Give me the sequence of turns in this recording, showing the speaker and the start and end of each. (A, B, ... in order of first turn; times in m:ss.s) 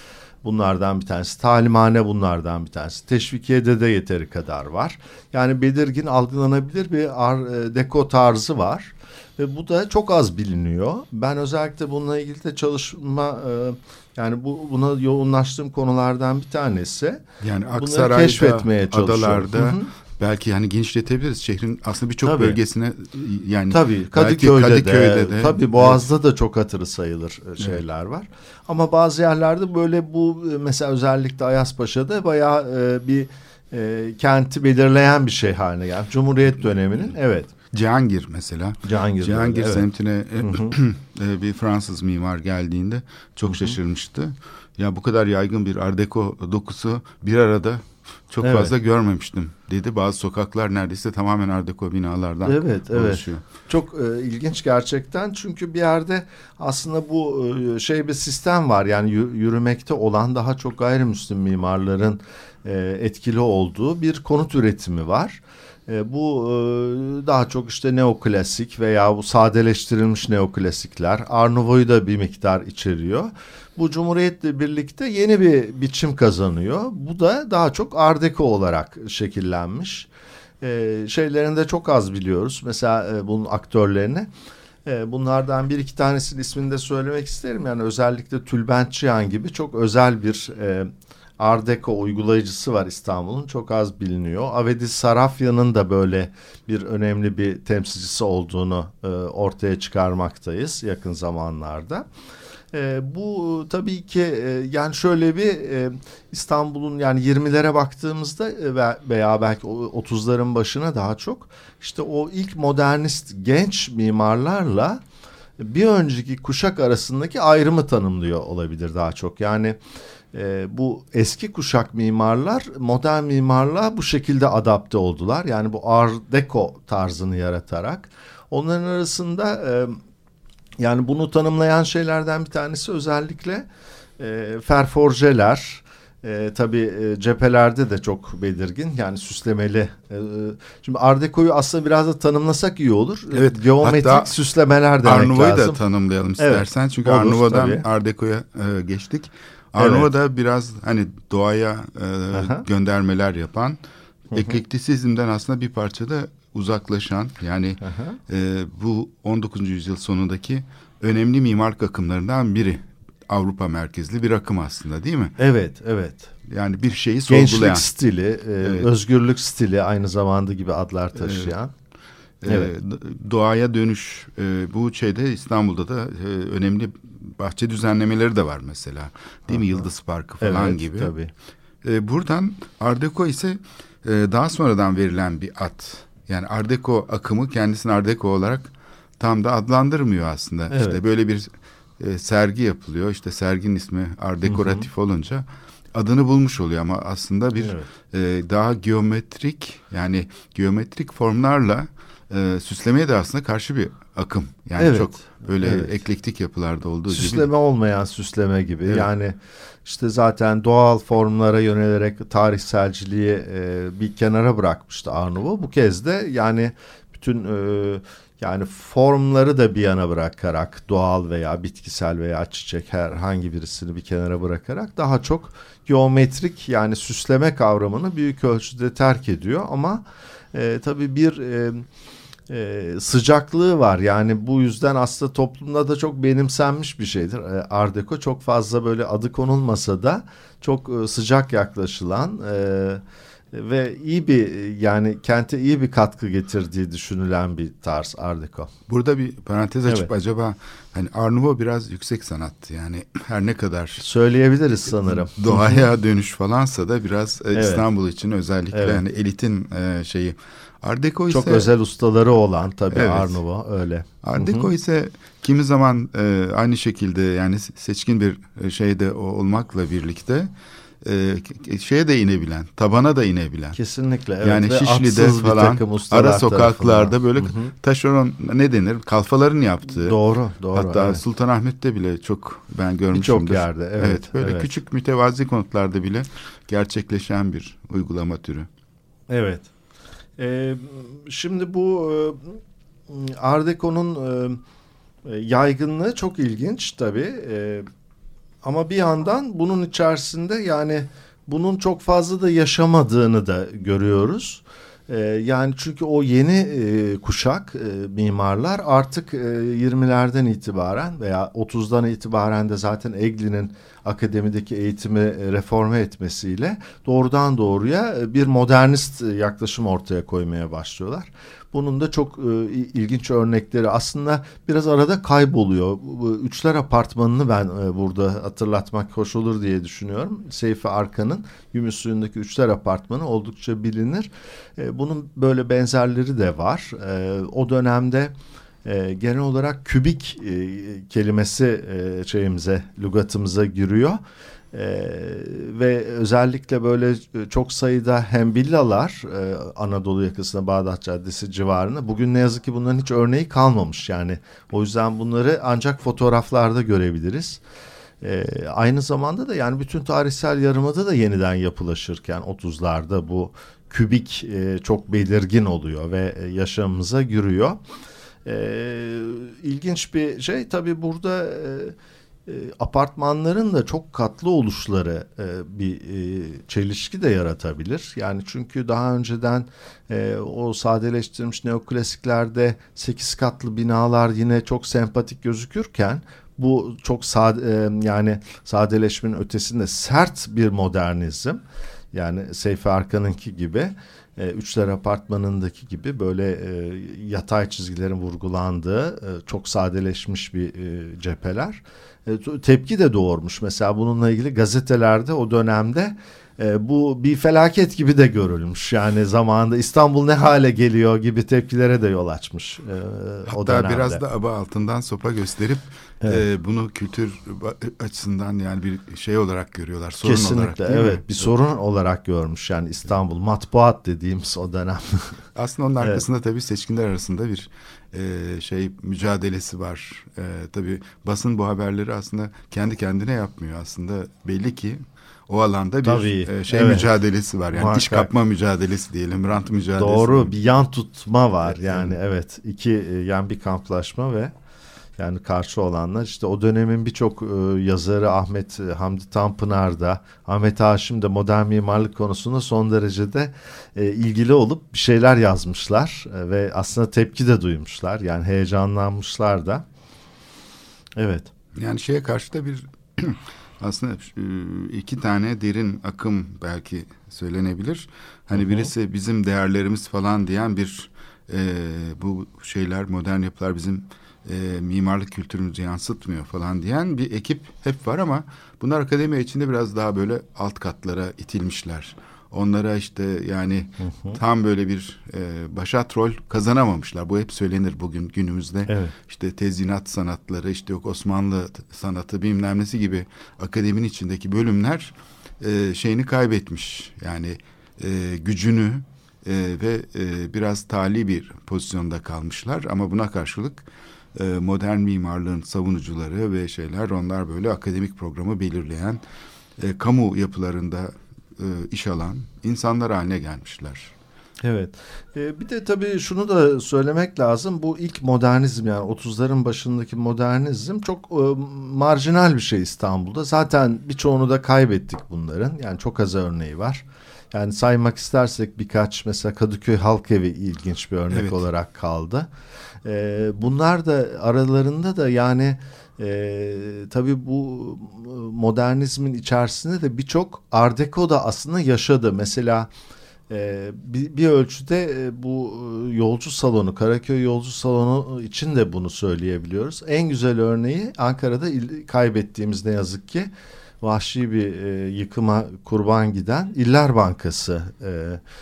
0:00.4-0:17.2 A
0:17.4-0:26.0 B
0:17.8-0:19.9 A
0:22.2-0:22.6 A
0:23.7-0:37.5 A
0:37.7-0:53.4 B
0:38.8-0:39.8 A
0:40.4-0:40.8 A
0:43.5-0:43.8 A
0:48.4-0:48.7 A
0:52.4-1:20.1 A
1:20.6-1:24.3 A
1:24.8-1:42.1 A
1:42.7-1:55.0 A
1:55.6-1:59.8 A
2:00.3-2:10.0 A
2:10.8-2:13.7 A
2:14.2-2:25.8 A
2:23.3-2:24.4 B
2:25.0-2:33.8 B
2:26.4-2:27.8 A
2:29.8-2:30.1 A
2:32.3-2:32.6 A
2:34.3-2:34.6 A
2:34.3-2:45.4 B
2:37.8-2:38.2 A
2:45.4-2:46.3 A
2:46.5-2:47.9 B
2:47.3-2:51.7 A
2:48.6-2:48.9 B
2:51.2-2:51.6 B
2:52.4-3:01.1 B
2:52.5-2:52.7 A
2:59.5-2:59.9 A
3:00.4-3:01.3 A
3:01.8-3:27.5 B
3:10.7-3:11.0 A
3:14.5-3:14.9 A
3:17.6-3:17.9 A
3:24.8-3:25.9 A
3:27.1-3:51.8 A
3:52.5-4:08.7 A
4:08.9-4:14.0 B
4:14.0-4:15.8 A
4:15.0-4:21.7 B
4:17.5-4:17.8 A
4:18.7-4:19.0 A
4:21.3-4:24.7 A
4:22.9-4:23.4 B
4:24.2-4:33.8 B
4:33.7-4:37.7 A
4:34.4-4:40.2 B
4:39.9-4:41.2 A
4:40.7-4:48.7 B
4:43.1-4:44.7 A
4:49.3-4:49.7 A
4:50.4-4:54.6 A
4:55.2-4:57.9 A
4:58.6-5:38.3 A
5:38.8-5:44.2 A
5:44.7-5:57.6 A
5:58.2-6:07.8 A
6:08.4-6:12.0 A
6:12.5-6:31.6 A
6:32.1-6:54.2 A
6:53.5-7:01.5 B
7:00.2-7:05.4 A
7:05.6-7:20.6 B
7:16.0-7:17.1 A
7:17.7-7:18.3 A
7:20.0-7:24.5 A
7:21.6-7:22.2 B
7:25.2-7:39.8 A
7:41.2-7:41.5 A
7:41.8-8:29.2 B
7:48.6-7:48.9 A
8:04.0-8:04.4 A
8:08.9-8:09.1 A
8:29.8-8:34.1 B
8:34.6-8:52.5 A
8:51.3-8:51.6 B
8:53.0-9:02.9 A
9:03.5-9:13.5 A
9:14.0-9:18.4 A